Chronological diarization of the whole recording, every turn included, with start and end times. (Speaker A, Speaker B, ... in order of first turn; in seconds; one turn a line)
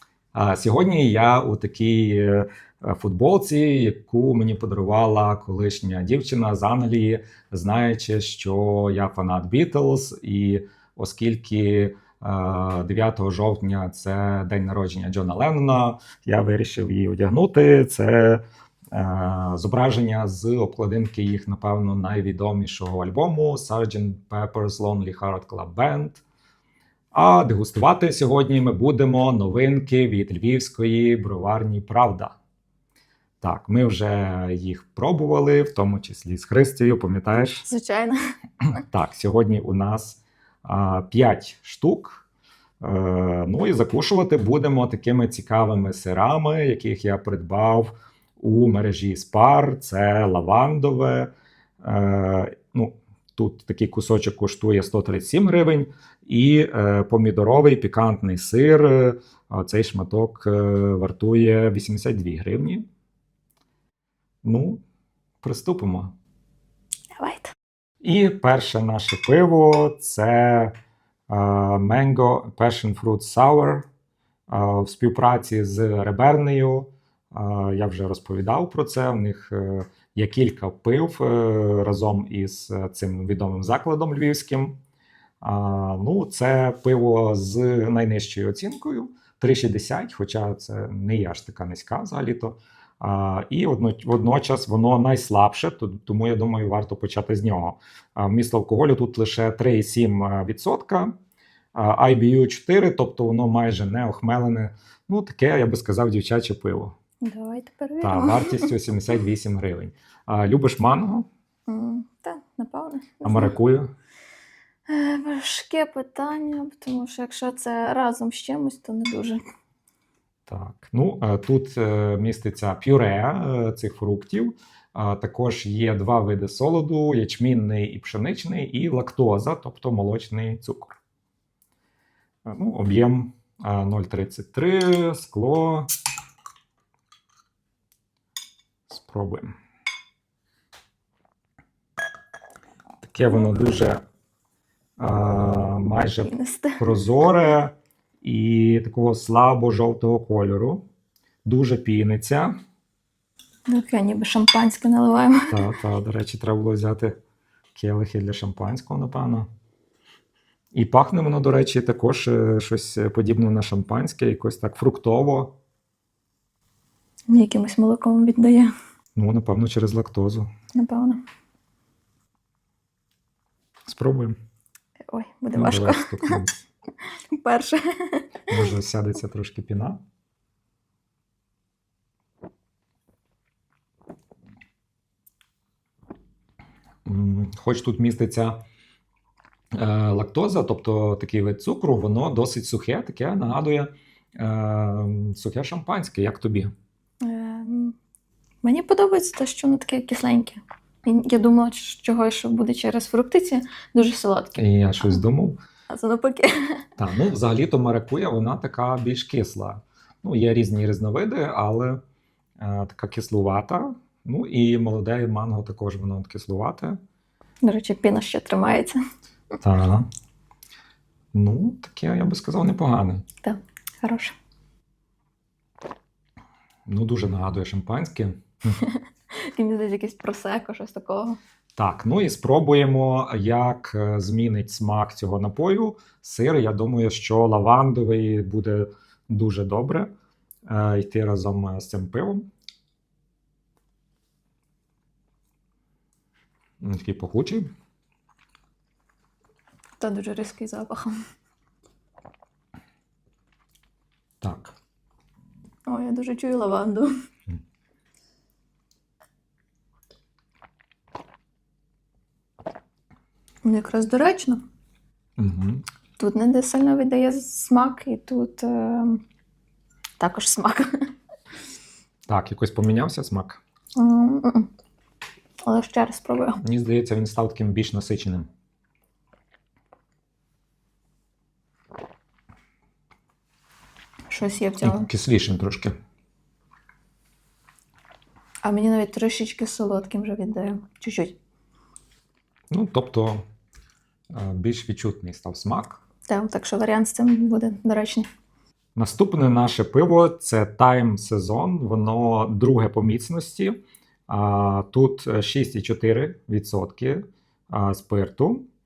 Speaker A: 0.3-18.4
Speaker A: 18.9-26.2
Speaker A: 27.1-32.4
Speaker A: 33.4-37.7
Speaker B: 37.6-38.3
Speaker A: 38.7-42.3
Speaker A: 42.8-51.3
Speaker A: 51.8-62.8
Speaker A: 64.4-64.8
Speaker A: 65.4-66.1
Speaker B: 67.2-67.5
Speaker A: 68.0-70.7
Speaker A: 71.3-73.8
Speaker A: 74.5-84.7
Speaker A: 85.4-101.2
Speaker A: 101.8-106.9
Speaker B: 107.2-108.7
Speaker A: 108.0-111.3
Speaker B: 111.7-113.5
Speaker A: 113.2-113.9
Speaker B: 114.9-119.4
Speaker A: 120.5-131.0
Speaker A: 132.5-135.9
Speaker A: 138.9-139.5
Speaker A: 143.0-144.0
Speaker A: 145.0-150.8
Speaker B: 146.2-146.9
Speaker A: 151.5-152.6
Speaker B: 153.7-155.6
Speaker A: 155.5-157.2
Speaker A: 157.8-159.5
Speaker A: 160.7-165.5
Speaker B: 167.3-168.7
Speaker A: 169.2-170.5
Speaker B: 170.8-171.2
Speaker A: 173.9-174.4
Speaker B: 175.1-176.4
Speaker A: 175.5-176.5
Speaker B: 177.3-178.7
Speaker A: 178.5-180.0
Speaker A: 187.1-188.6
Speaker A: 189.7-196.7
Speaker B: 197.2-198.0
Speaker B: 198.6-205.2
Speaker A: 204.6-205.6
Speaker B: 205.9-206.8
Speaker A: 207.0-212.0
Speaker A: 212.6-217.0
Speaker B: 217.6-219.0
Speaker A: 219.6-220.1
Speaker A: 221.3-223.2
Speaker B: 223.4-224.3
Speaker A: 226.9-228.4
Speaker B: 228.7-231.4
Speaker A: 231.8-240.1
Speaker A: 240.7-242.5
Speaker A: 246.8-247.7
Speaker B: 250.0-251.1
Speaker A: 254.4-254.7
Speaker B: 255.9-257.1
Speaker B: 263.6-264.6
Speaker A: 265.4-265.9
Speaker B: 266.2-269.2
Speaker B: 270.2-270.9
Speaker A: 272.3-273.6
Speaker B: 274.0-274.7
Speaker B: 275.6-276.6
Speaker A: 276.6-278.5
Speaker B: 284.3-285.1
Speaker A: 284.8-285.9
Speaker B: 288.6-291.4
Speaker A: 292.7-293.5
Speaker A: 294.3-296.0
Speaker B: 296.3-298.3
Speaker A: 299.0-303.8
Speaker A: 304.3-308.6